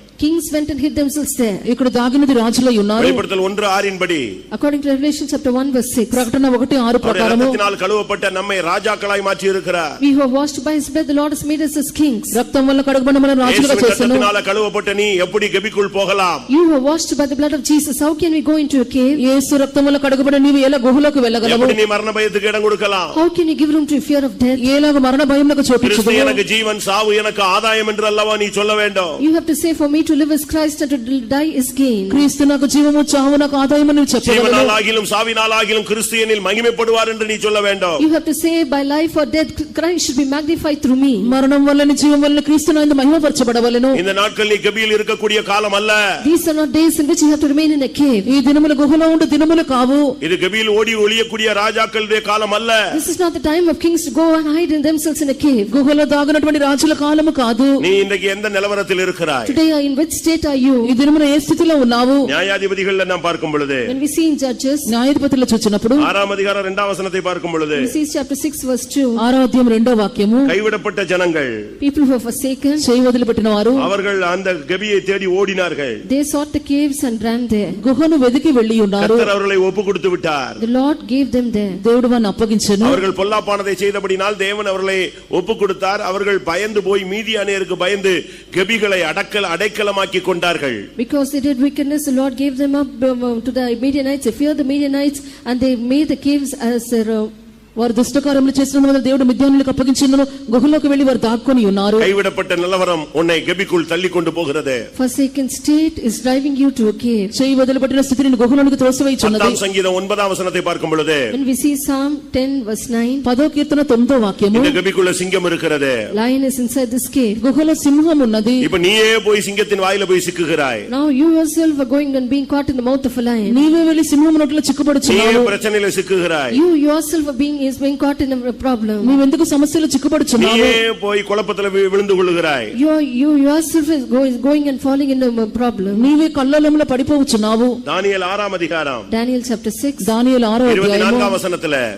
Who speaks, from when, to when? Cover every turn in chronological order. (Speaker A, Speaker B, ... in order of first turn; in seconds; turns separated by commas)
Speaker A: 0.2-1.6, Speaker B: 1.6-3.2, Speaker C: 3.0-4.3, Speaker A: 4.5-6.3, Speaker B: 6.1-7.6, Speaker C: 7.0-9.9, Speaker A: 10.0-12.4, Speaker B: 12.3-14.3, Speaker C: 13.4-16.4, Speaker A: 16.5-19.2, Speaker B: 19.2-21.7, Speaker C: 21.4-23.2, Speaker A: 23.1-24.6, Speaker B: 24.6-26.4, Speaker C: 25.8-29.2, Speaker A: 29.2-32.2, Speaker B: 32.1-34.7, Speaker C: 34.2-38.0, Speaker A: 38.0-41.3, Speaker B: 41.2-44.0, Speaker C: 43.9-46.0, Speaker A: 46.2-48.3, Speaker B: 48.2-50.1, Speaker C: 50.2-52.8, Speaker A: 52.9-55.7, Speaker B: 55.7-57.7, Speaker C: 57.8-59.5, Speaker A: 59.5-60.9, Speaker B: 60.8-62.3, Speaker C: 62.3-63.9, Speaker A: 63.9-64.9, Speaker B: 64.9-66.1, Speaker C: 66.0-67.9, Speaker A: 67.8-69.2, Speaker B: 69.2-70.5, Speaker C: 70.5-71.5, Speaker A: 71.8-72.8, Speaker B: 72.8-73.8, Speaker C: 73.8-76.0, Speaker A: 76.0-77.8, Speaker B: 77.8-79.3, Speaker C: 79.0-80.6, Speaker A: 80.6-81.8, Speaker B: 81.8-83.0, Speaker C: 82.8-90.8, Speaker A: 91.0-97.3, Speaker B: 97.8-102.1, Speaker C: 102.0-104.8, Speaker A: 105.0-107.3, Speaker B: 107.3-109.6, Speaker C: 109.2-111.3, Speaker A: 111.3-113.2, Speaker B: 113.2-114.8, Speaker C: 114.5-116.0, Speaker A: 116.1-117.4, Speaker B: 117.4-118.6, Speaker C: 118.6-120.9, Speaker A: 120.9-123.6, Speaker B: 123.5-125.5, Speaker C: 125.0-126.6, Speaker A: 126.5-129.2, Speaker B: 129.0-130.8, Speaker C: 130.4-132.7, Speaker A: 132.7-136.1, Speaker B: 135.9-137.8, Speaker C: 137.8-139.1, Speaker A: 139.1-140.1, Speaker B: 140.0-141.3, Speaker C: 140.7-141.8